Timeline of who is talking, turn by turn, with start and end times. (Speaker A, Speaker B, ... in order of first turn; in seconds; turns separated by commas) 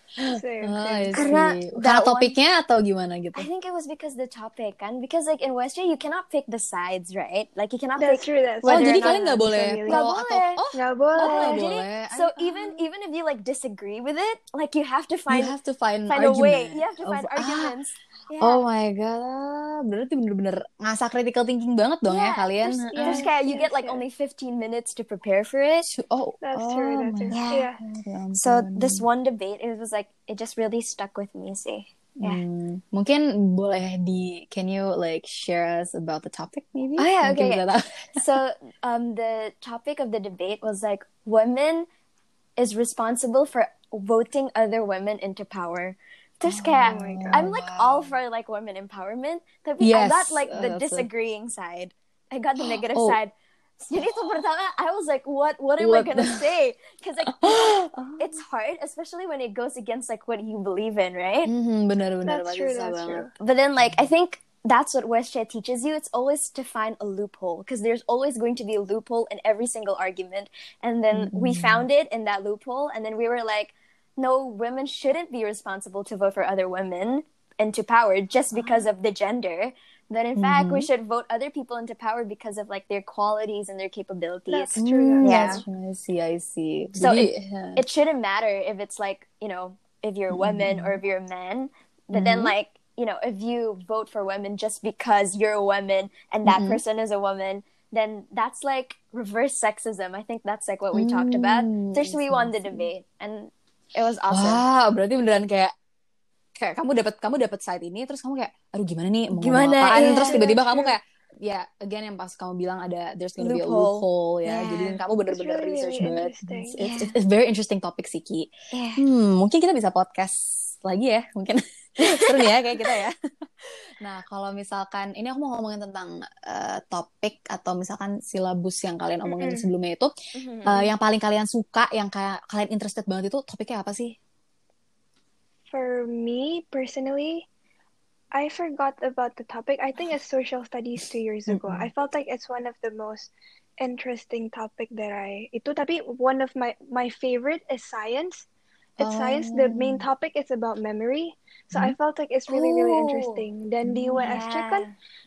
Speaker A: 0.2-3.5, Speaker B: 0.3-1.3, Speaker C: 1.1-2.3, Speaker C: 3.3-10.6, Speaker B: 8.0-10.1, Speaker A: 8.6-12.8, Speaker B: 10.7-11.6, Speaker C: 11.2-15.5, Speaker A: 15.3-17.7, Speaker C: 16.1-18.6, Speaker A: 18.4-23.3, Speaker C: 22.1-25.9, Speaker B: 22.9-24.0, Speaker A: 25.9-29.0, Speaker B: 26.4-27.8, Speaker C: 27.3-27.7, Speaker C: 28.3-32.4, Speaker A: 32.2-38.4, Speaker C: 37.0-37.6, Speaker C: 38.2-41.9, Speaker C: 42.6-57.6, Speaker A: 46.5-48.1, Speaker B: 46.8-47.5, Speaker A: 49.8-51.1, Speaker A: 52.6-53.2, Speaker A: 55.8-56.4, Speaker A: 57.3-58.1, Speaker C: 58.2-61.5, Speaker A: 61.5-63.2, Speaker B: 62.2-63.3, Speaker C: 63.4-85.6, Speaker A: 63.8-64.1, Speaker A: 71.1-71.9, Speaker A: 80.3-80.9, Speaker B: 84.5-85.6, Speaker A: 84.8-87.8, Speaker C: 87.0-104.6, Speaker A: 90.3-90.9, Speaker A: 92.1-92.5, Speaker A: 96.5-96.8, Speaker A: 100.9-102.9, Speaker A: 104.3-105.7, Speaker A: 106.6-130.1, Speaker C: 109.3-110.4, Speaker B: 109.9-111.0, Speaker C: 113.4-115.0, Speaker B: 115.3-116.8, Speaker C: 116.8-117.1, Speaker C: 118.7-119.0, Speaker C: 122.0-122.5, Speaker B: 129.2-129.6, Speaker C: 130.3-130.9, Speaker A: 130.6-134.2, Speaker B: 135.7-137.4, Speaker B: 138.3-148.4, Speaker A: 141.5-141.9, Speaker B: 149.0-154.9, Speaker A: 149.0-150.1, Speaker C: 152.5-153.4, Speaker A: 153.8-154.4, Speaker C: 154.2-154.9